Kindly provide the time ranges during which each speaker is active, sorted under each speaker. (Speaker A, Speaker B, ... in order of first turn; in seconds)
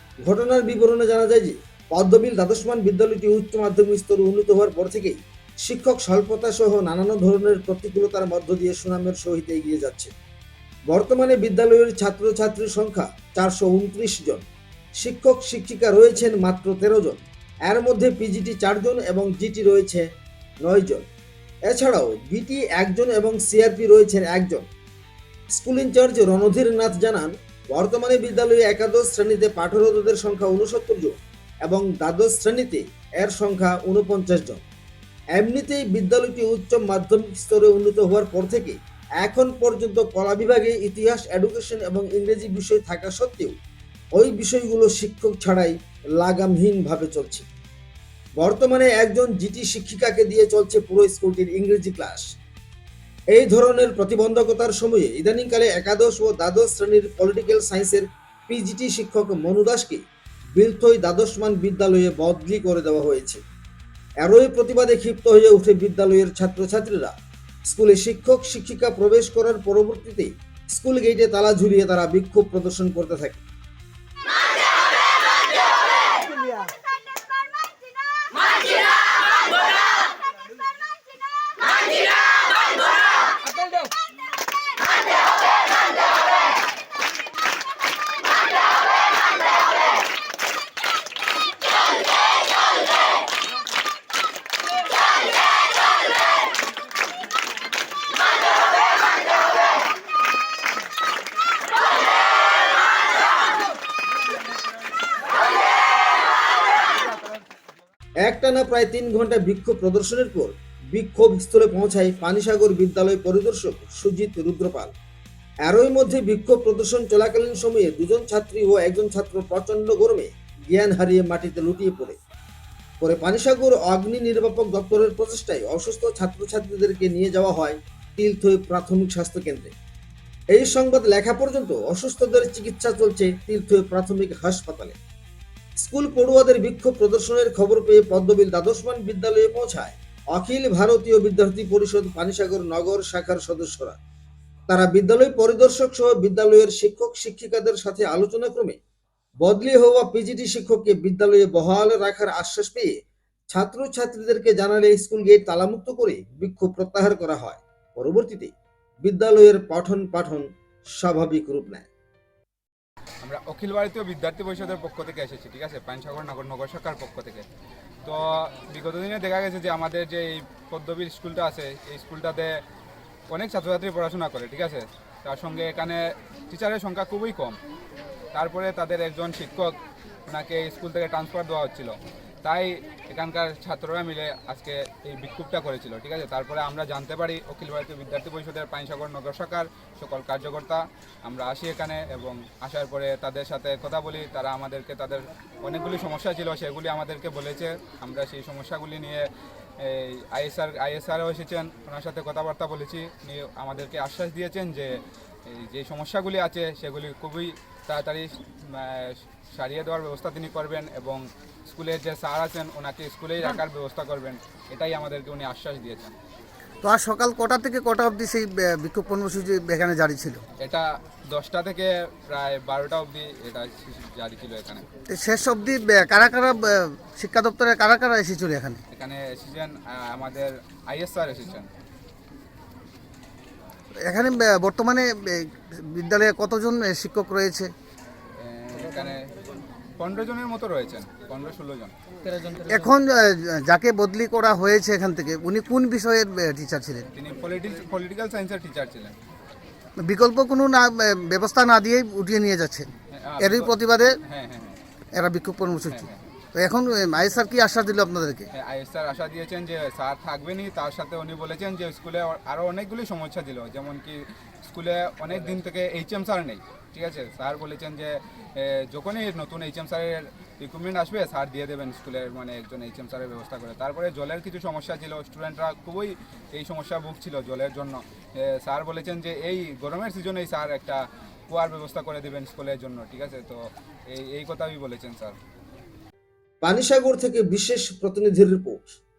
Speaker A: 0.2-10.1, 10.9-14.4, 15.0-20.1, 20.6-21.1, 21.7-24.6, 25.5-34.6, 35.3-43.5, 44.1-47.5, 48.4-52.2, 53.3-60.0, 60.5-63.4, 64.2-67.1, 67.7-73.4, 108.2-114.9, 115.6-122.2, 123.0-129.7, 130.5-135.0, 135.8-144.0, 144.7-148.8, 149.4-152.9, 153.5-160.5, 161.0-161.9, 286.6-289.0
Speaker B: 163.2-167.4, 168.0-172.6, 173.3-177.6, 178.3-179.8, 180.3-181.9, 182.4-199.3, 199.8-205.0, 205.5-216.1, 220.6-224.8, 228.9-231.7, 238.4-239.3, 240.0-241.9, 247.1-249.2, 253.1-254.8, 255.9-256.3, 258.5-278.0, 278.6-283.6, 284.1-285.4
Speaker C: 216.8-220.4, 225.1-228.8, 234.0-237.7, 242.4-247.1, 250.0-254.2, 255.1-258.5